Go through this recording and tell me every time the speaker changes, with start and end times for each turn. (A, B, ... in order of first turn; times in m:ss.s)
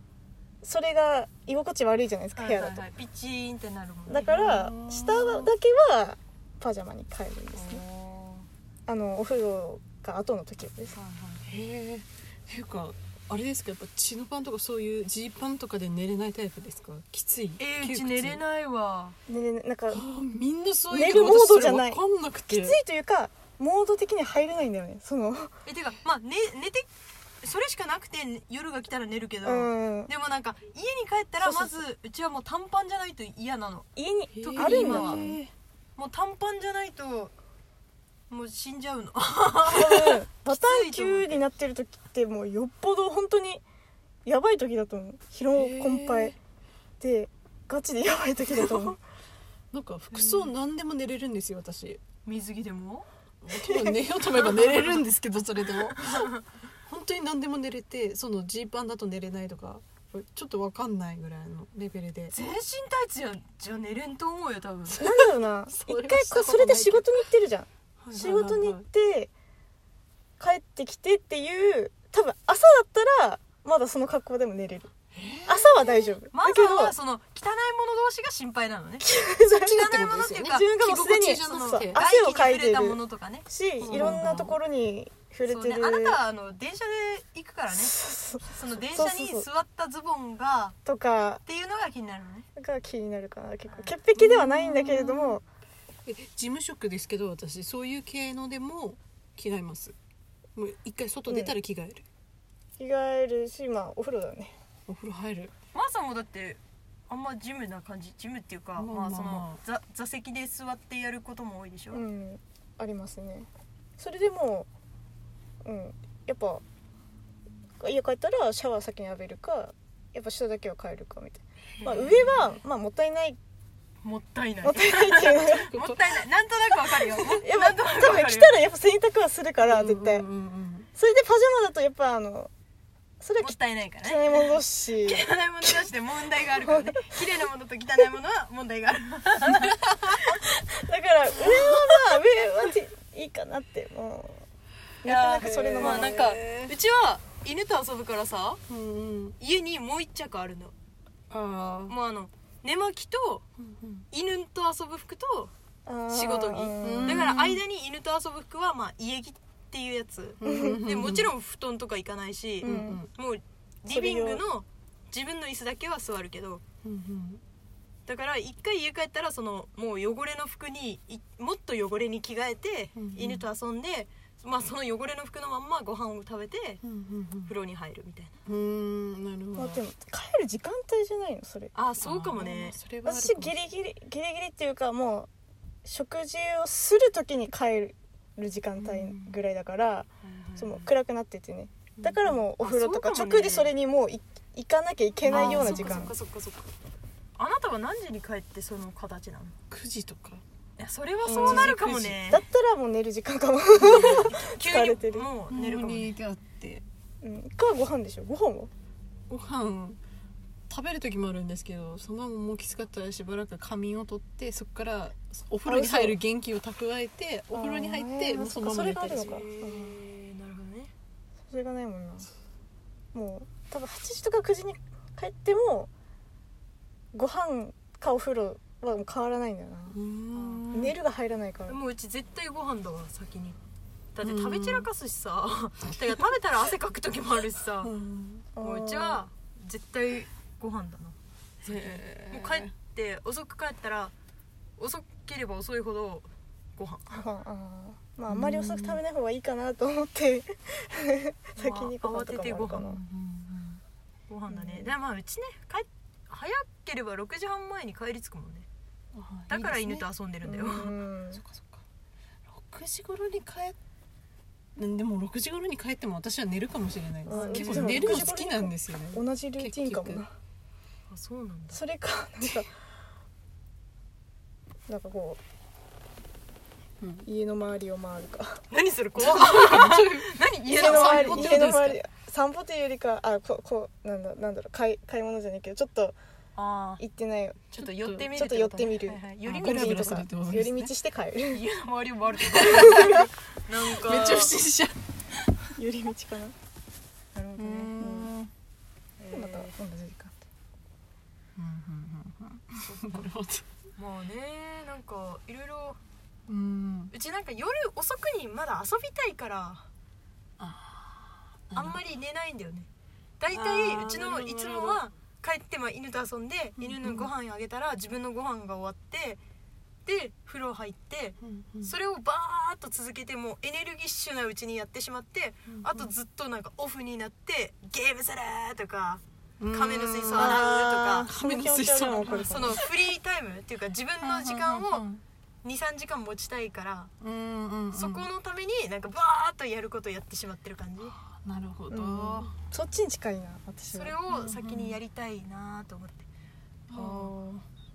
0:00.6-0:02.8 A
0:02.3-0:04.3 B
0:04.1-0:07.8 A
0:04.2-0:05.5 C
0:07.5-0:08.5 B
0:08.9-0:11.0 A
0:10.9-0:11.4 B
0:11.4-0:18.4 C
0:17.6-0:19.2 B
0:19.3-0:20.2 A
0:19.9-0:22.8 C
0:20.9-0:25.6 A
0:25.6-0:26.9 B
0:27.4-0:35.4 B
0:29.4-0:30.1 A
0:31.4-0:31.8 A
0:34.0-0:35.4 A
0:34.4-0:35.5 C
0:36.0-0:37.3 B
0:38.3-0:41.4 B
0:39.6-0:43.6 A
0:44.2-0:46.3 A
0:45.5-0:46.4 C
0:47.0-0:49.0 A
0:48.5-0:49.0 C
0:49.7-0:52.0 C
0:50.1-0:50.5 B
0:52.2-0:53.1 B
0:53.4-0:56.3 C
0:53.6-0:54.0 A
0:56.0-0:56.4 B
0:56.9-1:02.3 C
1:02.3-1:05.0 B
1:04.9-1:09.3 A
1:05.0-1:07.1 C
1:08.0-1:08.8 C
1:10.4-1:14.9 A
1:15.1-1:16.1 C
1:15.4-1:16.9 A
1:16.3-1:20.7 B
1:19.0-1:26.2 A
1:19.5-1:22.0 C
1:21.5-1:24.3 B
1:23.8-1:24.6 C
1:25.4-1:27.9 B
1:27.7-1:29.4 A
1:28.5-1:30.8 B
1:30.8-1:31.4 A
1:31.4-1:32.5 B
1:32.6-1:35.4 A
1:33.7-1:33.9 B
1:34.2-1:35.4 C
1:36.0-1:40.0 C
1:40.6-1:42.0 C
1:41.3-1:41.5 A
1:42.8-1:44.6 A
1:44.9-1:45.5 C
1:45.7-1:52.0 B
1:48.8-1:49.6 C
1:51.9-1:54.7 A
1:55.6-1:56.6 A
1:57.8-2:03.4 A
2:01.8-2:02.1 B
2:04.0-2:08.6 B
2:04.6-2:05.7 A
2:05.7-2:06.2 C
2:06.8-2:10.3 A
2:09.6-2:10.9 C
2:11.0-2:12.5 A
2:13.2-2:15.9 A
2:13.4-2:20.4 B
2:16.4-2:17.0 A
2:20.7-2:24.4 A
2:21.5-2:22.2 C
2:25.0-2:26.2 A
2:25.0-2:28.6 B
2:25.4-2:26.7 C
2:28.7-2:29.4 C
2:29.4-2:30.7 B
2:31.3-2:31.9 C
2:31.9-2:33.4 B
2:33.6-2:34.0 C
2:34.1-2:35.5 B
2:35.8-2:37.3 A
2:36.1-2:46.6 B
2:36.8-2:37.6 C
2:40.4-2:41.3 C
2:40.4-2:40.8 A
2:42.6-2:43.0 A
2:42.6-2:43.1 C
2:43.9-2:44.4 A
2:46.8-2:47.4 C
2:48.0-2:56.8 B
2:52.9-2:53.4 C
2:56.8-2:57.5 C
2:57.4-2:58.3 B
2:58.4-2:59.8 C
2:59.5-3:01.8 A
3:01.7-3:02.8 B
3:02.0-3:03.6 C
3:03.0-3:05.3 A
3:05.8-3:16.1 A
3:08.8-3:09.3 C
3:10.2-3:10.8 B
3:12.0-3:13.7 B
3:15.2-3:16.1 C
3:15.3-3:16.7 B
3:17.4-3:19.5 B
3:19.7-3:20.4 C
3:20.8-3:22.4 B
3:21.2-3:21.7 A
3:21.2-3:22.2 C
3:22.2-3:25.3 A
3:23.8-3:24.2 C
3:23.8-3:26.2 B
3:25.5-3:26.8 C
3:27.2-3:28.7 A
3:29.3-3:30.0 C
3:30.7-3:39.4 C
3:35.6-3:36.2 A
3:37.5-3:40.0 A
3:39.1-3:40.9 B
3:41.5-3:42.3 A
3:43.1-3:45.9 A
3:47.1-3:50.0 A
3:49.9-3:50.9 C
3:50.3-3:51.0 B
3:50.7-3:51.8 A
3:51.7-3:53.6 B
3:54.1-3:57.9 B
3:54.2-3:54.9 C
3:57.8-3:58.5 C
3:58.6-3:59.2 A
3:58.6-4:04.1 B
4:01.6-4:02.7 C
4:04.8-4:07.2 B
4:07.1-4:13.0 A
4:08.3-4:09.0 C
4:11.6-4:13.0 B
4:12.9-4:13.8 C
4:14.3-4:18.7 B
4:14.5-4:14.9 A
4:19.1-4:20.0 C
4:19.5-4:20.9 B
4:20.4-4:21.4 A
4:21.3-4:21.8 C
4:22.5-4:23.8 C
4:24.8-4:30.2 C
4:27.2-4:30.3 A
4:27.3-4:28.3 B
4:31.1-4:31.8 B
4:31.7-4:32.7 A
4:34.9-4:35.4 A
4:37.0-4:37.3 C
4:37.2-4:38.6 A
4:38.7-4:41.6 B
4:39.2-4:42.0 C
4:40.7-4:46.2 A
4:46.6-4:47.0 B
4:47.0-4:51.6 A
4:47.7-4:50.1 B
4:47.8-4:48.3 C
4:49.4-4:50.9 C
4:51.5-4:54.6 B
4:52.5-4:53.2 C
4:52.8-4:53.3 A
4:53.9-4:55.7 C
4:55.8-4:56.5 A
4:57.3-4:57.9 B
4:57.6-4:58.5 C
4:57.9-4:58.3 A
4:59.2-4:59.7 B
4:59.3-5:00.4 A
5:01.6-5:03.6 C
5:02.8-5:03.2 B
5:04.0-5:06.0 B
5:06.5-5:07.1 C
5:07.1-5:09.9 B
5:10.6-5:12.0 C
5:11.8-5:19.4 B
5:13.5-5:15.0 C
5:16.8-5:17.3 C
5:20.0-5:31.3 B
5:21.4-5:21.9 C
5:25.7-5:26.1 C
5:29.6-5:32.9 C
5:30.3-5:32.8 A
5:32.4-5:35.0 B
5:34.2-5:35.2 C
5:35.6-5:37.1 B
5:37.2-5:38.3 C
5:37.9-5:41.2 B
5:41.2-5:42.5 C
5:41.9-5:44.2 A
5:43.9-5:46.3 B
5:44.3-5:45.0 C
5:46.9-5:47.6 C
5:46.9-5:47.3 B